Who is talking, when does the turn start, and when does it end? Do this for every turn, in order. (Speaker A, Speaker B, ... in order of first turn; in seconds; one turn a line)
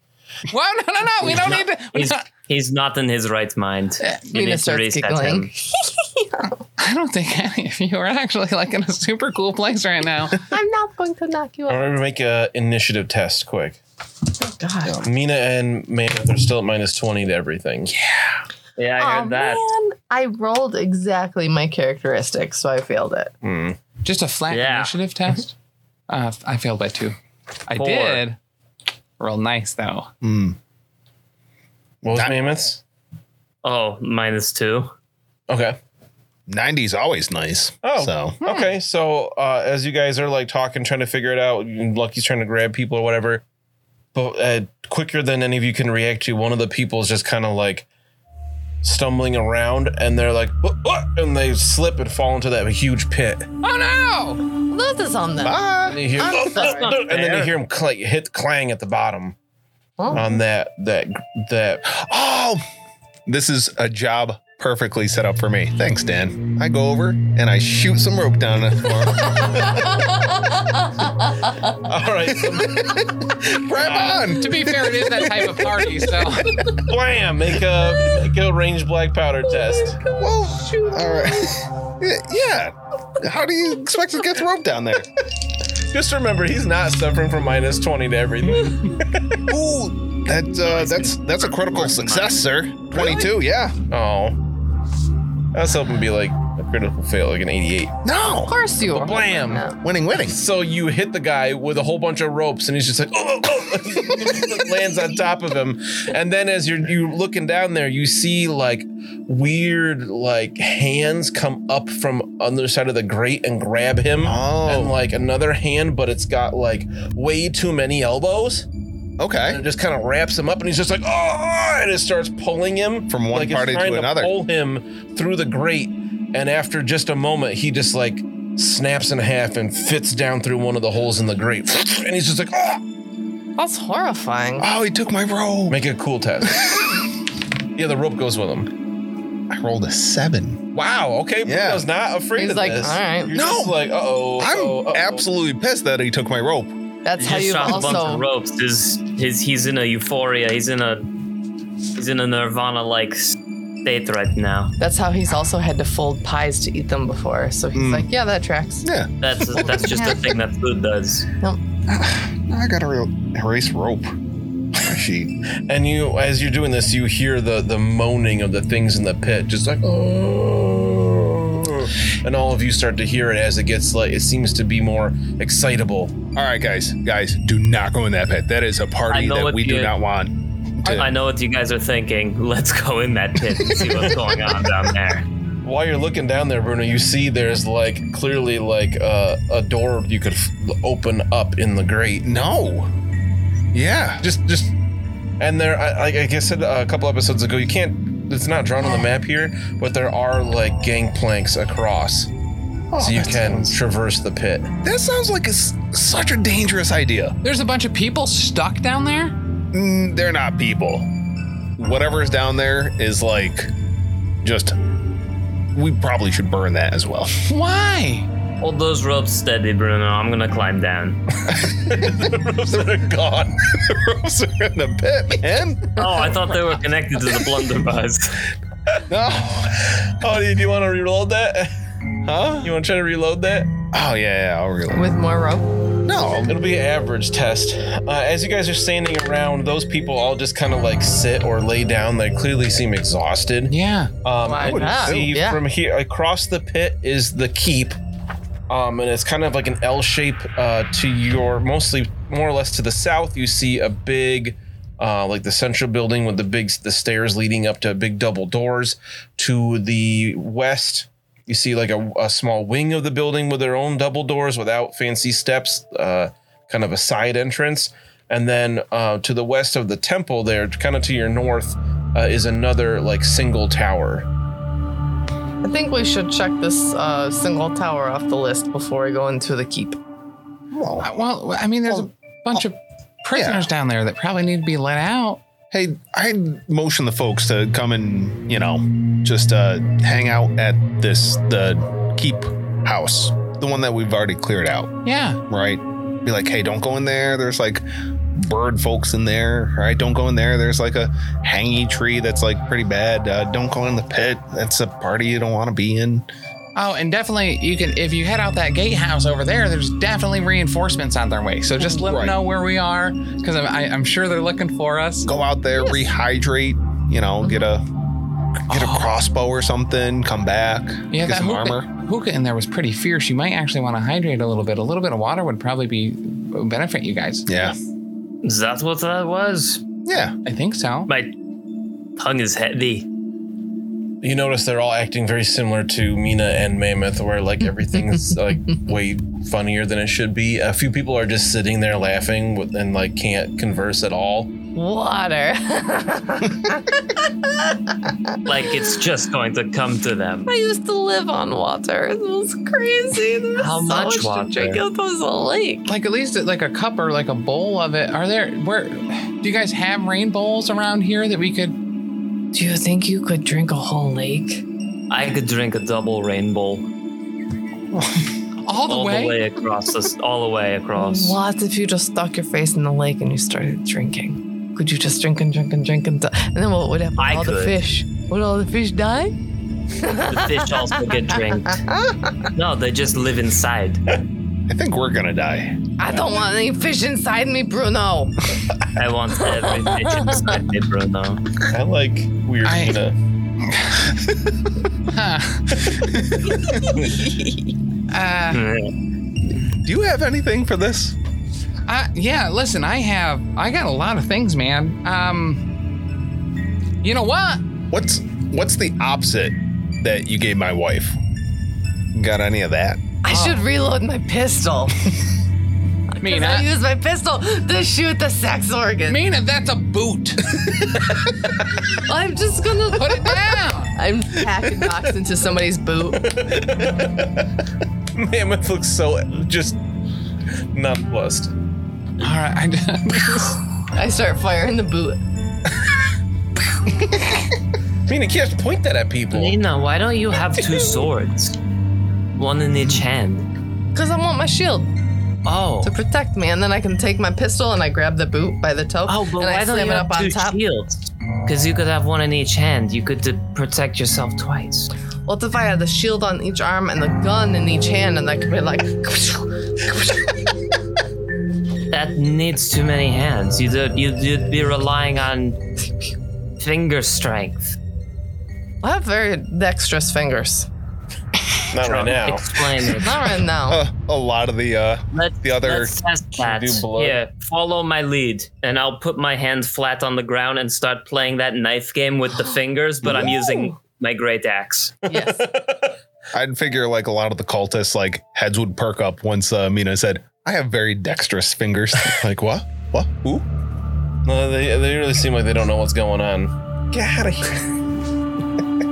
Speaker A: 0.5-2.2
Speaker B: 1.2-5.5
Speaker C: 4.3-6.5
Speaker A: 6.8-10.4
Speaker C: 10.5-11.9
Speaker D: 11.7-13.8
Speaker C: 14.4-14.9
Speaker D: 15.0-17.9
Speaker E: 17.9-18.4
Speaker B: 18.8-19.6
Speaker C: 19.0-23.3
Speaker D: 23.4-23.8
Speaker A: 24.0-25.5
Speaker B: 24.5-24.9
Speaker A: 26.1-27.1
Speaker A: 27.7-28.4
Speaker B: 27.8-28.2
Speaker A: 29.2-30.1
Speaker E: 30.2-30.6
Speaker D: 32.0-32.8
Speaker E: 32.1-32.5
Speaker B: 33.6-34.9
Speaker D: 35.5-35.8
Speaker E: 36.5-38.4
Speaker D: 37.8-43.4
Speaker A: 38.4-38.7
Speaker D: 44.1-47.9
Speaker D: 48.8-53.5
Speaker A: 53.6-54.4
Speaker C: 54.7-56.9
Speaker E: 55.4-56.0
Speaker D: 55.9-59.4
Speaker B: 56.4-57.5
Speaker C: 60.0-60.4
Speaker D: 60.1-61.8
Speaker E: 61.9-62.6
Speaker E: 63.3-69.9
Speaker C: 69.4-71.5
Speaker D: 71.8-74.3
Speaker E: 72.3-76.6
Speaker A: 74.3-76.7
Speaker D: 76.7-80.0
Speaker C: 79.4-81.5
Speaker E: 80.2-85.1
Speaker D: 85.8-89.4
Speaker E: 89.5-93.8
Speaker B: 90.6-92.4
Speaker D: 92.9-93.3
Speaker D: 93.9-94.4
Speaker D: 95.5-98.0
Speaker E: 98.0-98.5
Speaker C: 98.4-99.8
Speaker D: 98.9-99.6
Speaker E: 99.8-100.4
Speaker D: 100.2-118.7
Speaker E: 114.2-115.0
Speaker E: 119.2-119.6
Speaker D: 119.5-132.8
Speaker E: 123.1-124.3
Speaker C: 133.6-134.7
Speaker E: 134.6-135.8
Speaker D: 135.7-136.8
Speaker E: 136.4-136.9
Speaker D: 137.8-138.7
Speaker E: 139.5-140.6
Speaker D: 140.7-145.3
Speaker E: 141.4-141.8
Speaker C: 142.4-143.3
Speaker E: 143.3-143.8
Speaker E: 144.4-146.7
Speaker C: 147.0-148.2
Speaker B: 147.2-151.1
Speaker B: 151.9-154.7
Speaker C: 154.8-158.8
Speaker E: 157.7-158.1
Speaker E: 158.8-160.1
Speaker B: 159.2-161.3
Speaker E: 161.9-164.1
Speaker E: 164.7-165.3
Speaker D: 165.7-176.1
Speaker E: 176.3-181.1
Speaker B: 179.1-179.9
Speaker B: 180.8-185.2
Speaker E: 183.5-184.2
Speaker D: 184.0-184.3
Speaker D: 185.6-192.3
Speaker E: 192.2-192.9
Speaker E: 193.7-194.2
Speaker D: 194.2-194.7
Speaker D: 195.4-202.3
Speaker E: 202.9-203.8
Speaker D: 203.0-204.7
Speaker E: 204.8-207.3
Speaker A: 207.4-209.3
Speaker E: 209.7-211.1
Speaker E: 211.8-213.7
Speaker E: 214.4-214.8
Speaker E: 215.7-217.3
Speaker A: 217.5-218.3
Speaker B: 218.6-221.2
Speaker E: 221.5-223.1
Speaker D: 221.9-223.5
Speaker E: 223.7-226.4
Speaker B: 226.0-228.4
Speaker E: 229.1-229.8
Speaker D: 229.9-231.7
Speaker E: 232.2-232.7
Speaker D: 232.6-233.7
Speaker E: 233.9-235.0
Speaker C: 234.9-235.7
Speaker E: 236.0-236.6
Speaker D: 236.4-248.0
Speaker A: 243.7-244.1
Speaker C: 244.4-245.6
Speaker E: 244.6-245.4
Speaker D: 248.7-274.3
Speaker C: 275.6-280.0
Speaker E: 280.7-281.1
Speaker A: 281.0-285.4
Speaker E: 283.3-283.7
Speaker E: 285.7-294.9
Speaker A: 295.0-295.4
Speaker E: 295.5-306.2
Speaker A: 306.8-315.3
Speaker E: 311.8-312.4
Speaker E: 315.2-317.8
Speaker E: 318.6-321.9
Speaker A: 318.7-319.1
Speaker A: 321.1-327.5
Speaker E: 327.5-327.8
Speaker B: 328.4-329.8
Speaker E: 330.1-330.3
Speaker A: 330.4-331.1
Speaker B: 331.1-331.3
Speaker B: 332.2-333.1
Speaker D: 334.2-344.5
Speaker C: 344.7-348.7
Speaker B: 348.4-350.5
Speaker C: 350.5-355.9
Speaker B: 353.6-354.8
Speaker A: 355.9-361.8
Speaker C: 362.5-364.6
Speaker B: 365.1-366.9
Speaker E: 367.9-368.3
Speaker A: 368.6-369.4
Speaker B: 368.9-371.4
Speaker C: 370.9-379.3
Speaker B: 377.2-377.8
Speaker C: 379.9-382.4
Speaker B: 380.3-381.8
Speaker B: 382.6-384.0
Speaker E: 384.7-385.8
Speaker C: 386.0-388.3
Speaker B: 388.9-391.4
Speaker C: 390.0-390.4
Speaker D: 391.7-393.1
Speaker A: 392.6-393.0
Speaker A: 393.6-394.3
Speaker A: 395.1-395.8
Speaker C: 396.9-397.6
Speaker A: 398.1-398.6
Speaker B: 398.5-398.9
Speaker E: 399.7-401.1
Speaker A: 401.9-405.6
Speaker A: 407.0-407.6
Speaker E: 407.9-411.2
Speaker E: 412.1-413.0
Speaker C: 413.2-415.0
Speaker A: 413.3-413.6
Speaker C: 416.1-419.2
Speaker A: 416.2-416.7
Speaker A: 419.1-420.6
Speaker C: 421.8-426.2
Speaker A: 422.9-423.9
Speaker D: 426.1-427.5
Speaker D: 428.1-429.8
Speaker D: 430.7-431.5
Speaker A: 432.2-433.6
Speaker C: 433.9-435.2
Speaker E: 437.1-437.4
Speaker D: 438.1-439.6
Speaker B: 439.3-441.6
Speaker B: 442.4-443.4
Speaker C: 443.9-444.9
Speaker B: 445.4-445.9
Speaker C: 445.8-450.6
Speaker B: 449.1-454.9
Speaker C: 455.3-460.1
Speaker B: 461.9-465.6
Speaker B: 466.6-467.8
Speaker C: 468.8-470.7
Speaker D: 471.7-472.6
Speaker B: 471.8-473.2
Speaker C: 472.9-473.8
Speaker E: 473.7-475.9
Speaker B: 475.1-485.0
Speaker D: 476.4-477.2
Speaker E: 483.0-483.5
Speaker D: 485.1-485.9
Speaker C: 485.1-485.4
Speaker E: 486.3-493.4
Speaker D: 494.2-497.7